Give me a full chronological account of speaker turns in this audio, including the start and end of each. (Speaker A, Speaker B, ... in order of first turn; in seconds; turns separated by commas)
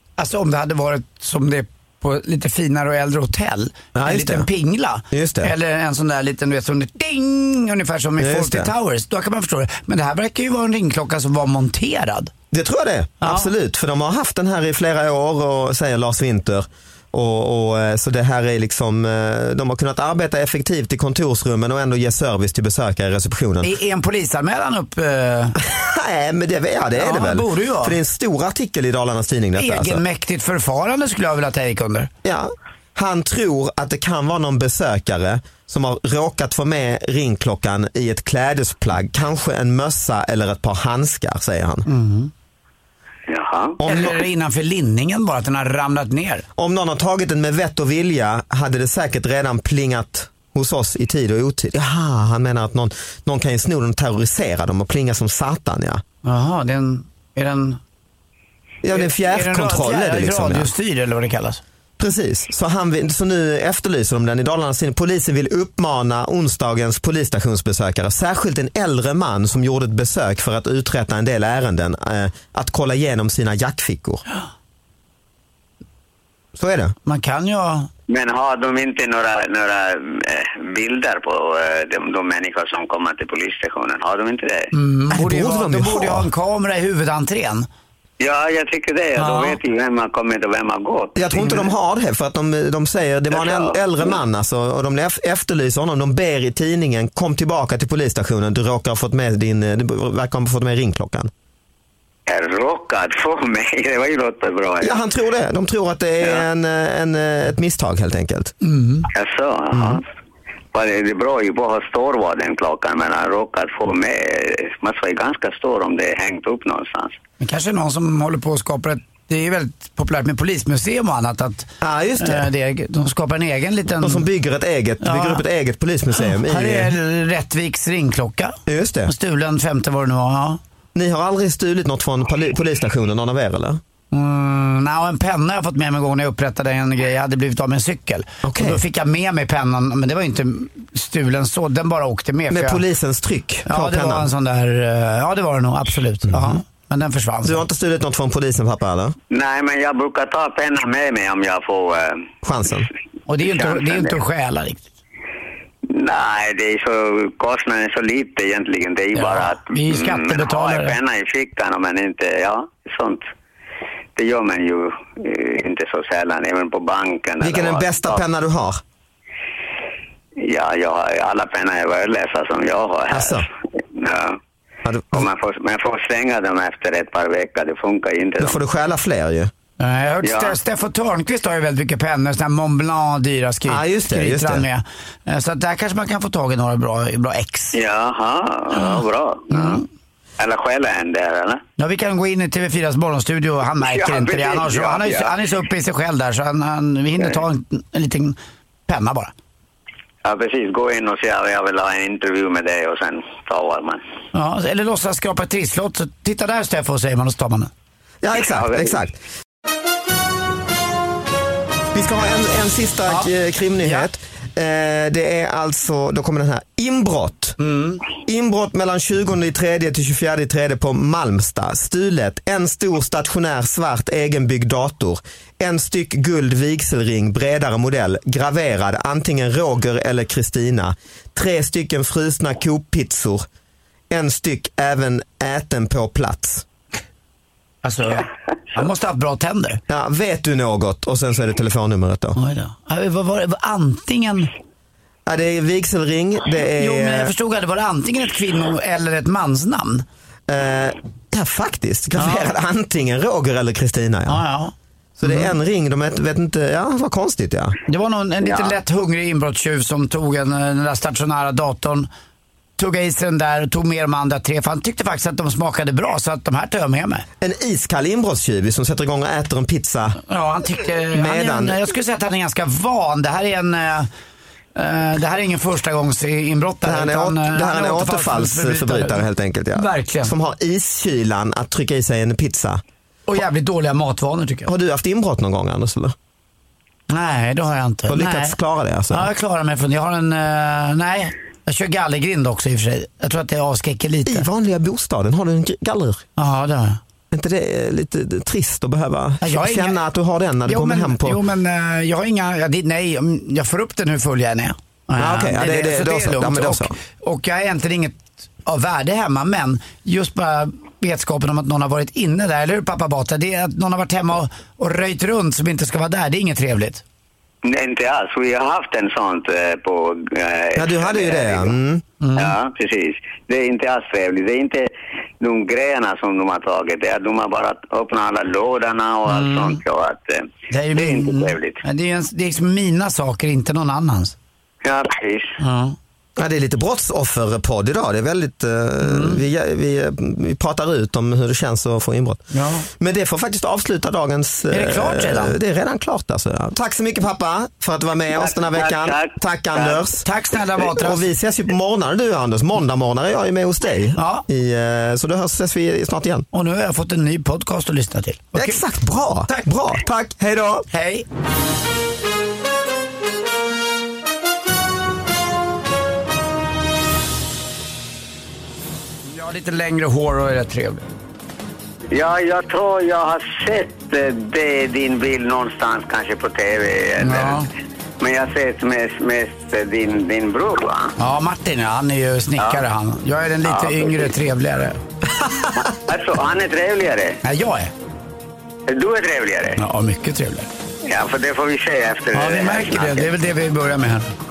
Speaker A: 0.2-12.3, Speaker B: 4.0-4.5, Speaker B: 5.1-5.5, Speaker B: 8.2-8.7, Speaker B: 12.5-23.7, Speaker A: 13.2-13.5, Speaker A: 23.6-25.6, Speaker B: 25.6-30.0, Speaker A: 26.9-28.0, Speaker A: 29.6-32.1, Speaker B: 32.2-41.9, Speaker A: 41.9-42.3, Speaker C: 43.3-43.8, Speaker B: 43.8-44.2, Speaker A: 43.8-46.5, Speaker B: 46.6-56.0, Speaker A: 56.2-57.8, Speaker B: 58.8-60.7, Speaker A: 58.9-61.6, Speaker B: 62.0-74.2, Speaker B: 76.6-76.9, Speaker A: 77.1-77.9, Speaker C: 78.1-84.7, Speaker A: 84.7-87.7, Speaker B: 85.1-86.3, Speaker C: 88.2-91.2, Speaker A: 89.2-89.6, Speaker B: 91.2-101.3, Speaker A: 91.3-91.7, Speaker C: 93.3-94.2, Speaker C: 102.3-105.0, Speaker B: 104.8-108.5, Speaker C: 106.2-106.5, Speaker A: 108.6-109.1, Speaker C: 109.1-110.0, Speaker B: 109.7-110.0, Speaker C: 110.7-117.2, Speaker A: 117.4-124.3, Speaker B: 121.8-122.5, Speaker B: 124.0-127.0, Speaker A: 125.0-125.4, Speaker A: 126.2-130.6, Speaker B: 128.7-129.1, Speaker B: 130.9-133.8, Speaker A: 134.1-142.8, Speaker B: 138.4-138.8, Speaker B: 142.5-144.3, Speaker A: 143.7-147.6, Speaker B: 146.3-146.6, Speaker B: 147.4-149.2, Speaker C: 149.3-152.3, Speaker B: 152.4-152.9, Speaker A: 153.3-154.9, Speaker C: 153.4-154.2, Speaker C: 155.9-163.2, Speaker A: 159.2-161.0, Speaker C: 164.2-168.2, Speaker B: 167.4-168.8, Speaker C: 170.4-174.4, Speaker B: 173.1-173.5, Speaker B: 174.8-175.3, Speaker C: 175.1-178.6, Speaker B: 178.4-179.5, Speaker A: 179.8-187.8, Speaker C: 180.2-180.6, Speaker B: 183.7-184.7, Speaker C: 187.7-189.8, Speaker A: 189.5-189.8, Speaker C: 190.4-191.6, Speaker A: 191.8-199.3, Speaker C: 193.8-195.4, Speaker C: 200.2-204.0, Speaker A: 204.3-207.7, Speaker B: 208.2-209.2, Speaker C: 208.3-209.0, Speaker B: 211.9-217.6, Speaker A: 213.1-214.1, Speaker A: 217.6-218.0, Speaker B: 218.3-233.4, Speaker B: 234.1-236.7, Speaker A: 237.8-239.8, Speaker B: 239.9-242.4, Speaker A: 242.4-244.5, Speaker B: 245.3-247.3, Speaker A: 246.7-250.1, Speaker B: 250.5-254.4, Speaker A: 252.2-252.5, Speaker A: 254.3-254.7, Speaker B: 255.2-257.8, Speaker A: 255.2-255.5, Speaker A: 257.9-262.1, Speaker C: 258.4-258.8, Speaker A: 262.8-267.2, Speaker B: 267.4-270.2, Speaker A: 270.3-274.1, Speaker B: 271.1-271.8, Speaker A: 274.8-280.3, Speaker B: 276.8-282.8, Speaker A: 283.3-284.7, Speaker B: 284.7-286.1, Speaker A: 287.1-288.6, Speaker B: 288.1-289.3, Speaker A: 289.1-294.5, Speaker B: 294.3-296.2, Speaker A: 296.4-297.0, Speaker B: 297.3-301.4, Speaker A: 299.4-300.0, Speaker A: 300.6-317.0, Speaker B: 305.2-307.0, Speaker C: 317.6-321.8, Speaker B: 320.8-322.0, Speaker A: 322.2-322.6, Speaker C: 322.4-331.8, Speaker A: 329.3-329.8, Speaker A: 330.7-334.4, Speaker C: 334.8-335.6, Speaker A: 335.6-336.0, Speaker B: 336.4-342.4, Speaker A: 339.0-339.4, Speaker A: 342.5-342.9, Speaker B: 343.0-350.2, Speaker A: 344.7-345.6, Speaker C: 348.3-350.1, Speaker A: 350.2-351.3, Speaker B: 350.8-356.5, Speaker A: 354.2-354.4, Speaker A: 356.5-358.8, Speaker B: 358.6-360.9, Speaker A: 359.5-359.8, Speaker A: 360.9-361.3, Speaker A: 369.2-371.1, Speaker C: 372.1-377.6, Speaker A: 377.2-377.7, Speaker C: 378.2-381.1, Speaker A: 381.2-385.0, Speaker C: 382.6-382.9, Speaker C: 383.6-384.4, Speaker B: 385.4-385.7, Speaker C: 385.9-387.4, Speaker A: 387.4-387.9, Speaker C: 388.9-389.8, Speaker A: 389.8-390.7, Speaker C: 391.1-393.3, Speaker A: 392.3-394.3